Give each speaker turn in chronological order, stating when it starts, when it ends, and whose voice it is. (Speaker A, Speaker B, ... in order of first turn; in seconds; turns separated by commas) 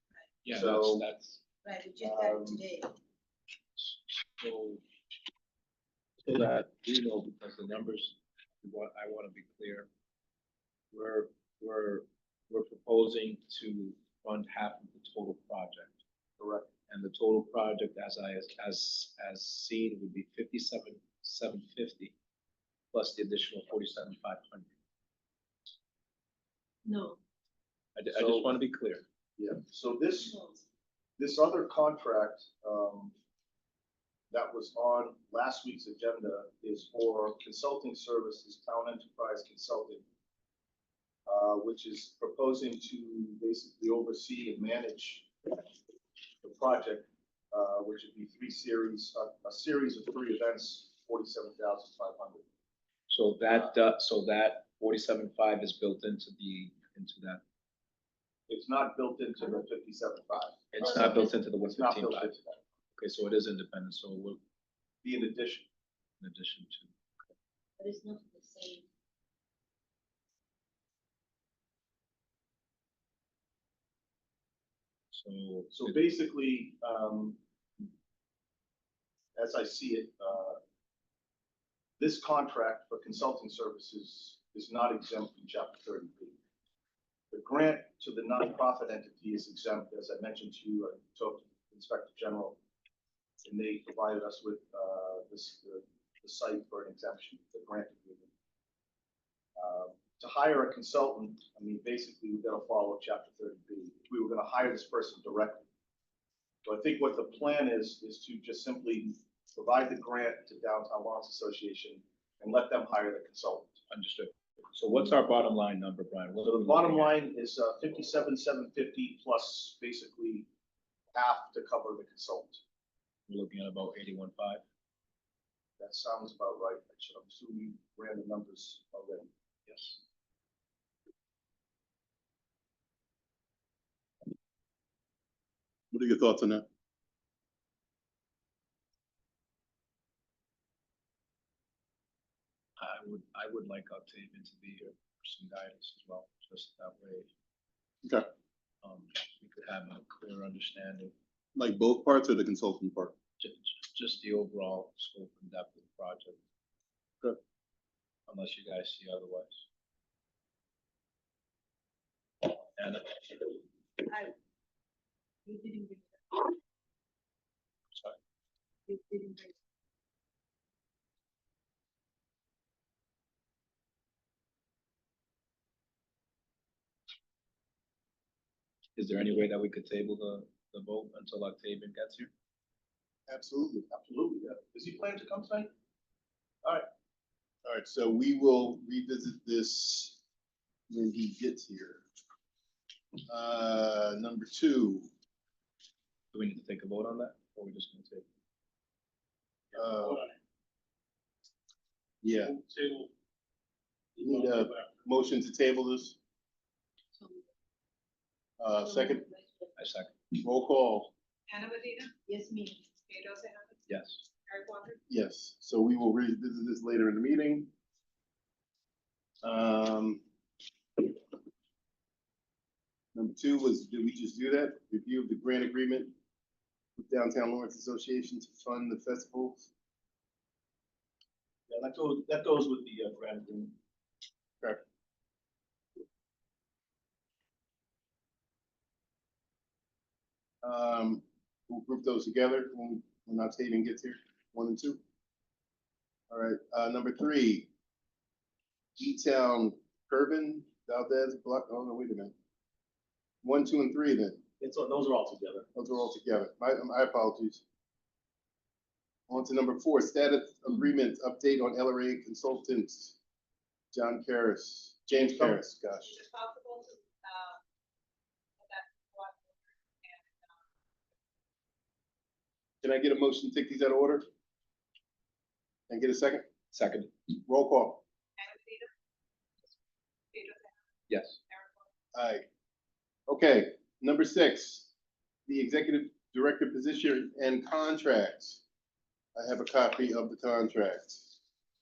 Speaker A: 0.4-1.4, Speaker B: 0.5-1.1, Speaker C: 1.6-2.9, Speaker B: 2.0-2.6, Speaker A: 3.8-4.8, Speaker A: 6.2-9.9, Speaker A: 10.9-16.0, Speaker B: 16.4-16.7, Speaker A: 16.9-22.1, Speaker A: 22.9-24.7, Speaker C: 26.9-27.2, Speaker A: 28.0-29.0, Speaker B: 28.1-28.5, Speaker B: 29.4-30.4, Speaker C: 30.3-30.6, Speaker B: 31.2-33.1, Speaker B: 34.3-40.0, Speaker B: 41.3-45.3, Speaker B: 46.4-52.5, Speaker A: 53.1-57.4, Speaker B: 58.5-62.6, Speaker A: 60.7-62.3, Speaker C: 60.8-61.4, Speaker A: 63.0-64.4, Speaker B: 65.0-65.7, Speaker A: 66.2-67.3, Speaker C: 67.8-68.8, Speaker A: 75.1-76.0, Speaker B: 75.7-77.4, Speaker B: 79.4-80.6, Speaker B: 82.0-86.4, Speaker B: 87.3-92.6, Speaker B: 93.4-98.3, Speaker B: 99.6-105.7, Speaker B: 106.7-113.8, Speaker A: 113.9-117.2, Speaker B: 116.5-120.5, Speaker B: 121.2-122.6, Speaker A: 123.3-124.6, Speaker B: 125.8-129.3, Speaker A: 129.7-130.0, Speaker D: 135.9-136.7, Speaker A: 142.8-147.3, Speaker A: 148.8-151.1, Speaker D: 151.6-153.2, Speaker A: 153.4-156.4, Speaker A: 158.3-159.6, Speaker A: 162.4-163.6, Speaker C: 164.0-164.3, Speaker C: 165.4-166.6, Speaker C: 168.9-169.6, Speaker A: 179.0-182.3, Speaker D: 183.3-183.9, Speaker B: 183.9-185.7, Speaker D: 187.7-190.2, Speaker D: 190.9-192.1, Speaker D: 193.3-195.1, Speaker A: 196.3-198.2, Speaker D: 199.7-200.2, Speaker D: 202.2-202.6, Speaker B: 202.6-203.1, Speaker B: 204.2-204.8, Speaker D: 204.2-206.2, Speaker C: 207.2-207.5, Speaker D: 208.6-209.3, Speaker C: 208.8-209.7, Speaker A: 209.8-210.3, Speaker D: 210.4-211.1, Speaker E: 211.5-212.2, Speaker C: 212.3-213.0, Speaker E: 213.1-213.8, Speaker A: 213.9-214.2, Speaker E: 214.4-215.0, Speaker D: 215.1-217.7, Speaker D: 219.4-220.2, Speaker D: 223.1-226.1, Speaker D: 227.0-229.7, Speaker B: 231.7-233.8, Speaker D: 240.6-245.0, Speaker D: 246.3-247.7, Speaker D: 249.0-252.3, Speaker D: 253.4-254.4, Speaker B: 254.6-255.7, Speaker D: 255.8-257.6, Speaker D: 259.3-263.2, Speaker D: 263.9-266.2, Speaker B: 265.1-265.6, Speaker E: 266.1-267.6, Speaker E: 268.6-270.6, Speaker D: 272.8-274.3, Speaker D: 275.9-276.5, Speaker A: 276.7-277.1, Speaker D: 277.4-278.0, Speaker E: 278.4-278.9, Speaker E: 280.3-280.8, Speaker A: 281.1-281.4, Speaker E: 281.5-281.9, Speaker D: 282.1-282.5, Speaker D: 283.3-284.9, Speaker D: 285.5-288.6, Speaker D: 289.4-291.4